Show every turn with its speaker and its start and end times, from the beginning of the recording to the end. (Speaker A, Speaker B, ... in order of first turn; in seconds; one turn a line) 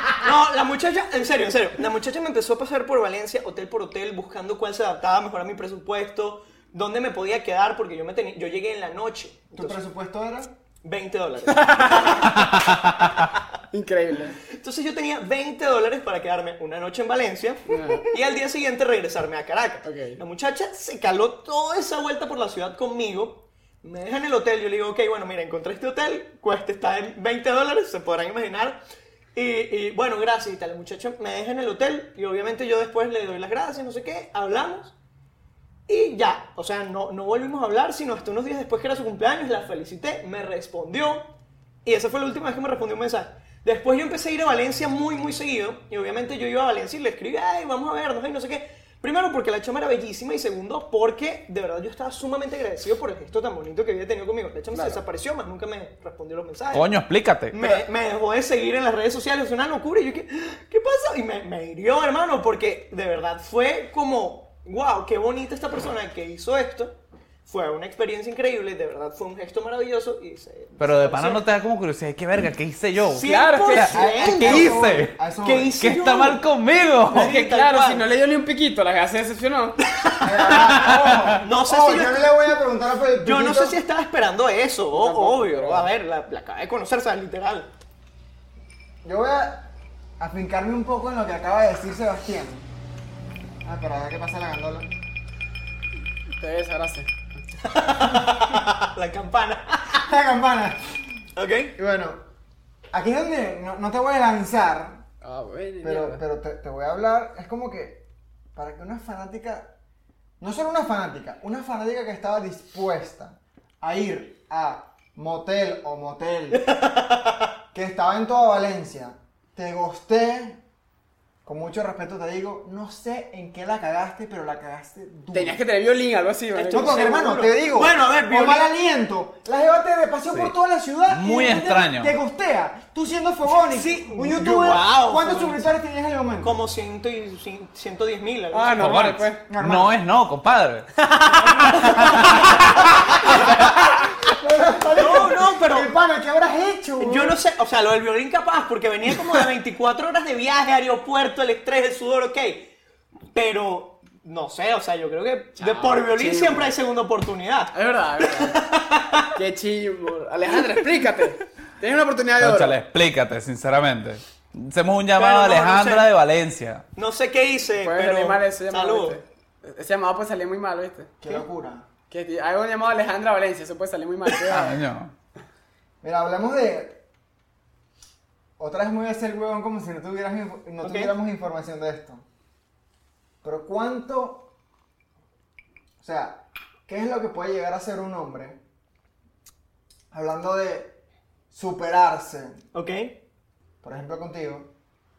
Speaker A: 0.1-9.8
Speaker B: 9.5-10.6
Speaker A: 10.8-13.4
Speaker C: 11.5-12.3
Speaker D: 12.4-12.7
Speaker C: 13.7-14.4
Speaker A: 14.5-28.8
Speaker C: 17.7-18.1
Speaker C: 19.8-20.2
Speaker A: 29.3-35.0
Speaker A: 35.9-41.3
Speaker A: 41.8-56.9
Speaker C: 54.7-55.0
Speaker D: 56.7-57.6
Speaker A: 57.5-71.4
Speaker D: 70.8-75.1
Speaker A: 73.0-76.4
Speaker C: 73.2-73.9
Speaker B: 73.9-75.8
Speaker D: 75.8-77.3
Speaker C: 77.1-79.8
Speaker A: 77.1-78.0
Speaker A: 79.9-82.4
Speaker B: 80.2-83.8
Speaker D: 80.8-81.3
Speaker A: 83.2-87.7
Speaker C: 84.9-85.9
Speaker B: 89.0-89.7
Speaker B: 90.2-92.7
Speaker B: 93.6-94.9
Speaker C: 96.4-97.1
Speaker A: 97.6-100.0
Speaker B: 99.9-101.0
Speaker A: 101.4-101.7
Speaker B: 101.8-102.2
Speaker B: 102.9-105.0
Speaker C: 105.2-106.2
Speaker B: 105.8-108.0
Speaker B: 108.5-109.7
Speaker B: 110.4-116.6
Speaker A: 116.5-117.5
Speaker B: 117.7-120.6
Speaker B: 121.5-125.6
Speaker C: 125.3-127.1
Speaker A: 126.5-128.7
Speaker B: 126.7-136.6
Speaker D: 131.1-132.1
Speaker A: 133.7-135.6
Speaker A: 136.4-138.8
Speaker C: 138.5-139.4
Speaker D: 138.8-141.1
Speaker B: 139.5-139.9
Speaker A: 141.2-143.7
Speaker D: 141.7-143.3
Speaker B: 143.2-147.4
Speaker A: 144.9-145.9
Speaker A: 147.0-152.7
Speaker A: 153.3-159.3
Speaker C: 155.6-156.8
Speaker C: 157.7-158.6
Speaker C: 159.3-162.8
Speaker D: 162.4-166.8
Speaker A: 165.1-166.1
Speaker A: 166.9-169.2
Speaker C: 167.8-171.1
Speaker B: 171.2-171.9
Speaker C: 172.1-174.8
Speaker D: 174.4-175.1
Speaker B: 176.0-177.0
Speaker B: 178.6-182.2
Speaker A: 180.8-181.1
Speaker B: 183.4-184.5
Speaker B: 186.0-188.6
Speaker B: 190.1-190.9
Speaker B: 191.5-192.6
Speaker A: 192.7-193.2
Speaker B: 193.8-194.7